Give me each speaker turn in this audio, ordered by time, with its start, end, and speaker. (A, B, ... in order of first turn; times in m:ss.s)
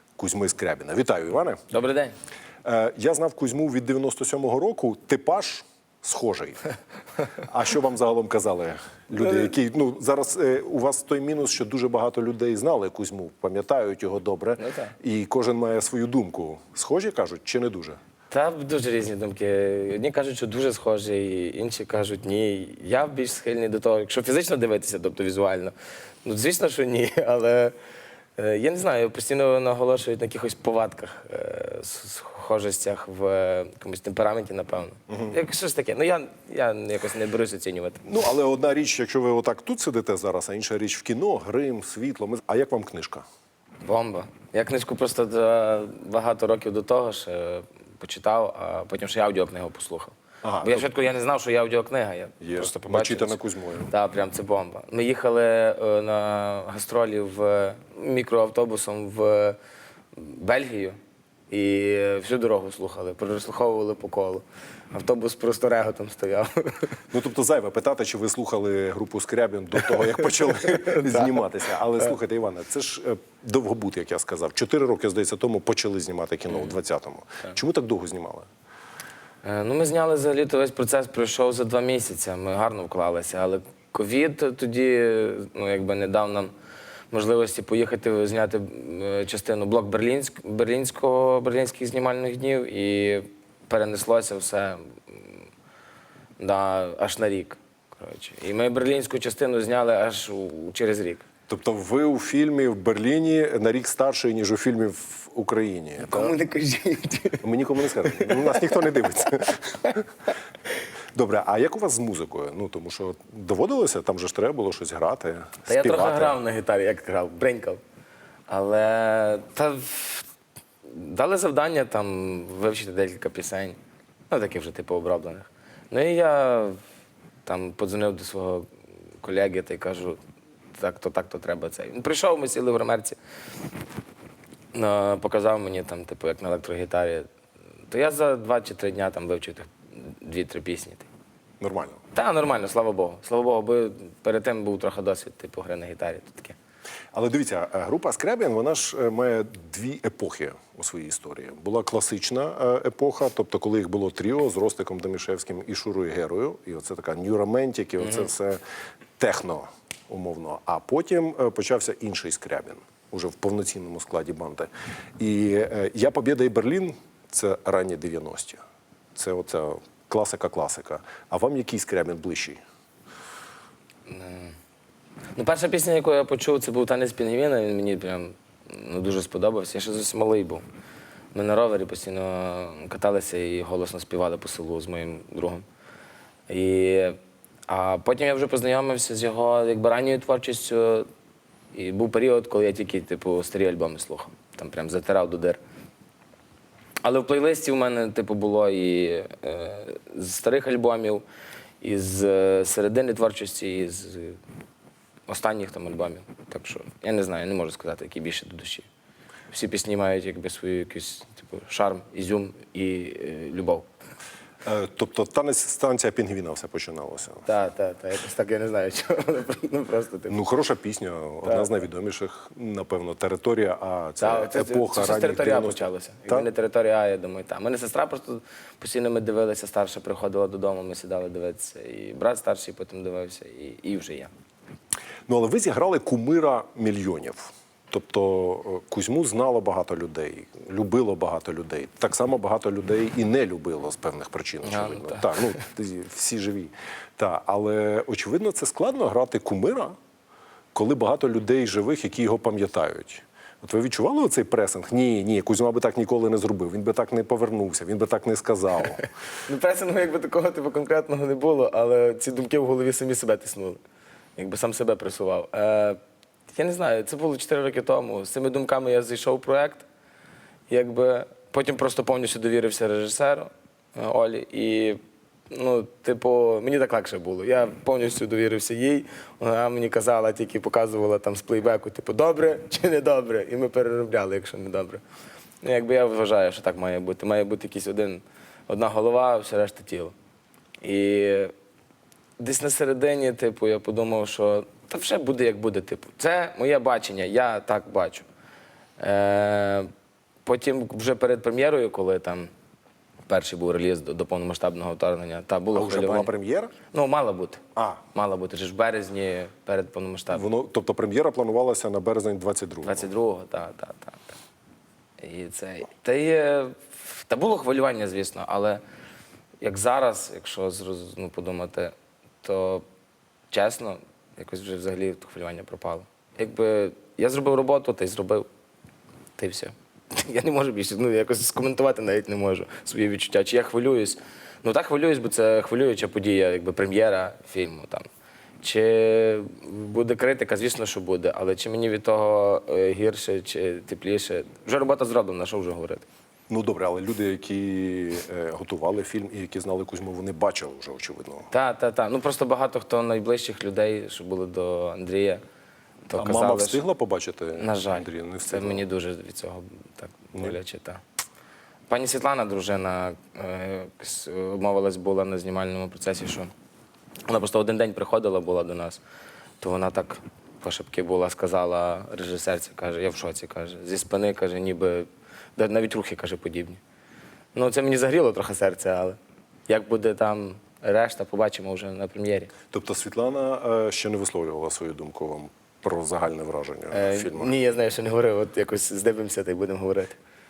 0:00.2-0:01.6 A
0:01.7-0:02.2 B
0:02.6-0:06.7 A
0:07.3-0:18.0 A
0:14.6-0:14.9 B
0:18.3-0:27.8 B
0:28.4-0:38.0 B
0:35.1-0:35.3 A
0:38.0-0:43.2 A
0:43.8-0:59.6 B
0:50.4-0:50.9 A
0:52.4-0:53.9 A
1:00.2-1:01.0 B
1:01.5-1:07.0 B
1:07.1-1:18.5 A
1:09.9-1:11.4 B
1:19.4-1:26.5 B
1:27.1-1:35.5 B
1:36.4-1:41.2 B
1:41.5-1:46.3 A
1:46.0-1:48.9 B
1:47.4-1:50.0 A
1:51.2-1:56.4 A
1:55.7-1:57.8 B
1:58.5-2:00.3 B
2:00.8-2:03.8 B
2:04.3-2:06.8 B
2:07.4-2:08.7 B
2:09.2-2:10.2 B
2:10.8-2:13.2 B
2:14.7-2:17.3 B
2:17.9-2:21.1 B
2:21.6-2:22.0 A
2:22.1-2:26.6 B
2:27.1-2:38.6 A
2:39.2-2:48.6 A
2:49.2-2:52.6 A
2:54.1-2:54.6 B
2:55.4-3:00.6 B
3:01.3-3:05.6 B
3:06.5-3:11.1 B
3:11.7-3:15.6 B
3:17.0-3:21.2 B
3:21.8-3:24.4 B
3:25.3-3:28.9 B
3:29.5-3:33.9 B
3:34.6-3:37.5 A
3:37.5-3:40.4 B
3:40.3-3:46.5 A
3:41.5-3:41.8 B
3:44.2-3:54.3 B
3:55.3-4:10.0 A
4:04.6-4:05.6 B
4:10.8-4:19.1 A
4:19.5-4:23.8 B
4:24.4-4:26.0 B
4:26.5-4:29.9 B
4:30.7-4:45.0 B
4:45.6-4:50.2 B
4:50.8-4:51.5 B
4:52.4-4:58.3 B
4:59.0-4:59.9 B
5:00.4-5:02.5 B
5:03.3-5:06.3 B
5:05.7-5:06.7 A
5:06.9-5:07.6 B
5:07.8-5:08.0 A
5:08.1-5:10.4 B
5:10.3-5:13.1 A
5:12.8-5:14.4 B
5:15.2-5:18.8 B
5:19.6-5:22.8 B
5:23.5-5:28.5 B
5:29.4-5:38.0 B
5:38.6-5:46.1 B
5:46.5-5:51.5 A
5:51.5-5:55.4 B
5:56.1-5:56.8 B
5:56.2-5:58.8 A
5:57.6-6:01.0 B
6:01.9-6:06.5 B
6:07.3-6:09.0 B
6:09.6-6:16.8 B
6:17.6-6:22.5 B
6:22.7-6:27.6 A
6:26.9-6:30.2 B